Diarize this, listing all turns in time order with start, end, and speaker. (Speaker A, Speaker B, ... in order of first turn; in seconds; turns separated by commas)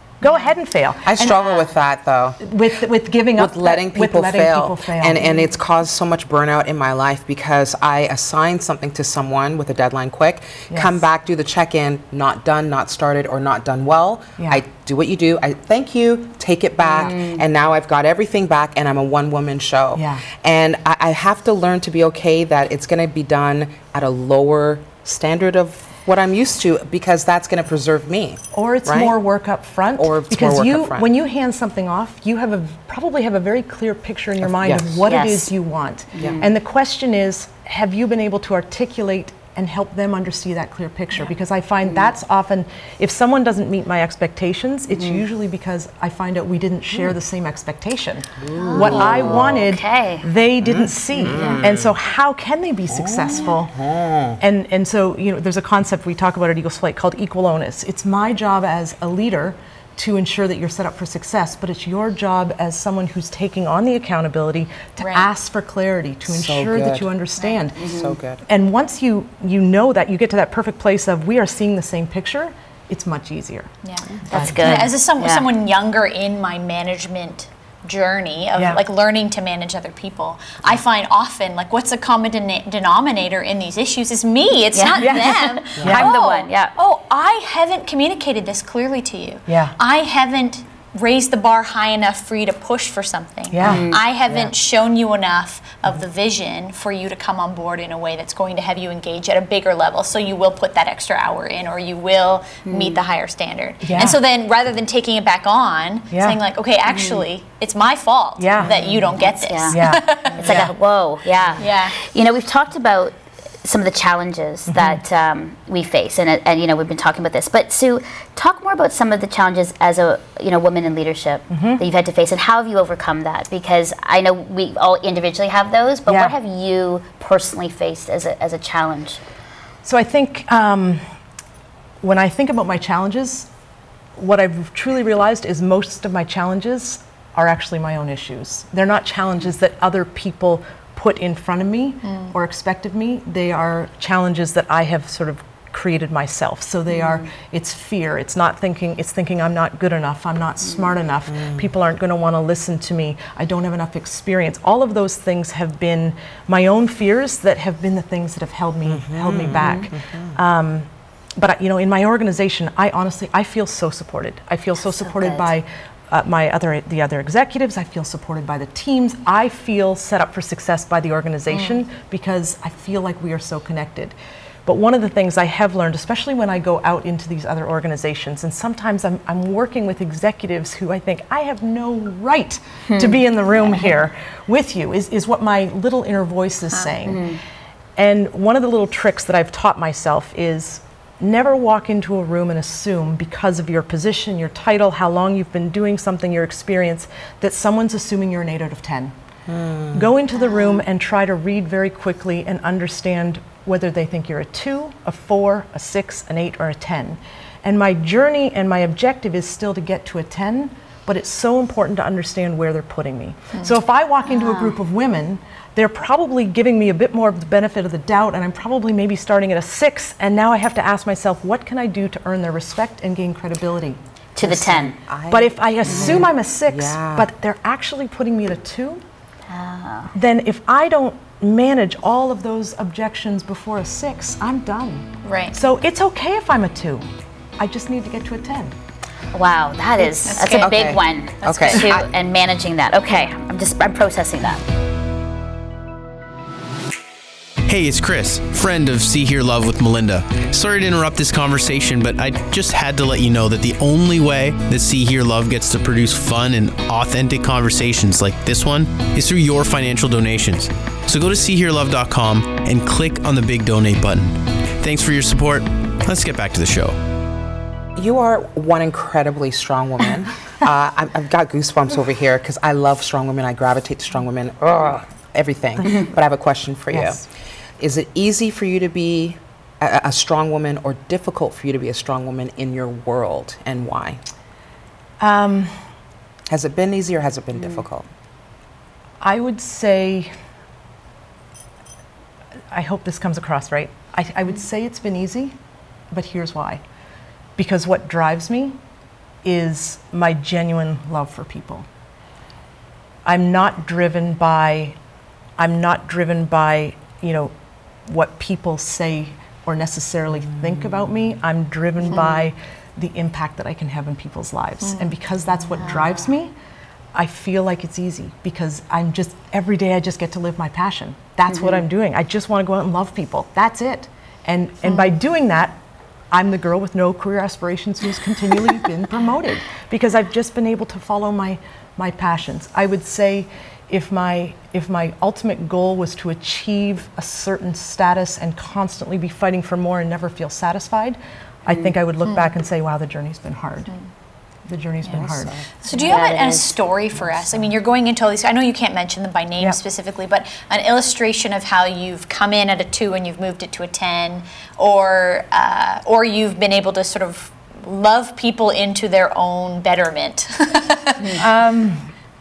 Speaker A: 0.2-1.6, Speaker B: 1.1-2.4, Speaker A: 2.4-5.2, Speaker B: 3.4-29.1, Speaker A: 10.7-11.0, Speaker A: 14.4-14.6, Speaker C: 16.8-17.4, Speaker A: 19.9-20.2, Speaker A: 28.5-53.8, Speaker B: 30.0-31.1, Speaker B: 34.4-35.0, Speaker C: 35.0-35.5, Speaker C: 36.1-36.5, Speaker C: 44.9-45.2, Speaker B: 48.4-49.6, Speaker C: 48.5-50.3, Speaker B: 50.6-51.9, Speaker D: 51.3-51.6, Speaker B: 52.9-54.4, Speaker A: 54.4-67.9, Speaker D: 65.0-65.3, Speaker B: 66.3-67.1, Speaker C: 67.8-68.2, Speaker B: 67.8-68.4, Speaker A: 68.5-73.7, Speaker D: 73.8-110.7, Speaker A: 74.3-74.9, Speaker C: 74.3-75.5, Speaker A: 78.6-78.8, Speaker C: 84.7-86.7, Speaker A: 85.0-86.1, Speaker A: 89.5-89.8, Speaker A: 93.5-93.9, Speaker C: 93.6-94.0, Speaker C: 102.7-103.0, Speaker A: 103.8-104.2, Speaker A: 106.1-106.4, Speaker C: 106.9-107.2, Speaker A: 108.4-108.8, Speaker C: 108.7-129.2, Speaker A: 109.7-110.0, Speaker D: 111.6-112.0, Speaker A: 114.7-115.0, Speaker A: 121.5-121.8, Speaker A: 126.1-126.3, Speaker A: 129.8-131.0, Speaker A: 132.0-133.5, Speaker A: 134.2-187.4, Speaker D: 142.1-142.3, Speaker B: 158.9-160.4, Speaker C: 159.6-159.9, Speaker C: 164.8-165.5, Speaker C: 182.9-183.9, Speaker C: 187.1-187.4, Speaker A: 188.0-199.1, Speaker B: 199.5-200.1, Speaker A: 199.9-229.0, Speaker C: 200.4-200.8, Speaker C: 214.3-214.7, Speaker C: 224.4-225.0, Speaker B: 224.4-227.3, Speaker C: 229.5-230.1, Speaker A: 230.1-237.1, Speaker D: 235.2-235.6, Speaker A: 237.6-238.8, Speaker C: 239.3-244.6, Speaker D: 240.2-242.0, Speaker B: 240.5-242.1, Speaker E: 247.7-267.0, Speaker B: 268.0-277.2, Speaker A: 275.8-276.1, Speaker A: 276.9-277.2, Speaker B: 277.8-284.2, Speaker A: 285.2-285.8, Speaker B: 286.5-288.1, Speaker A: 289.2-290.3, Speaker A: 292.7-295.6, Speaker A: 296.1-296.8, Speaker A: 297.6-298.8, Speaker A: 299.4-301.9, Speaker A: 303.2-305.0, Speaker A: 305.6-307.5, Speaker A: 308.1-316.5, Speaker D: 314.8-315.1, Speaker A: 317.1-325.8, Speaker C: 321.5-321.8, Speaker A: 326.3-343.9, Speaker A: 344.7-345.6, Speaker B: 345.3-345.7, Speaker D: 345.8-361.4, Speaker C: 346.0-346.8, Speaker A: 361.3-362.1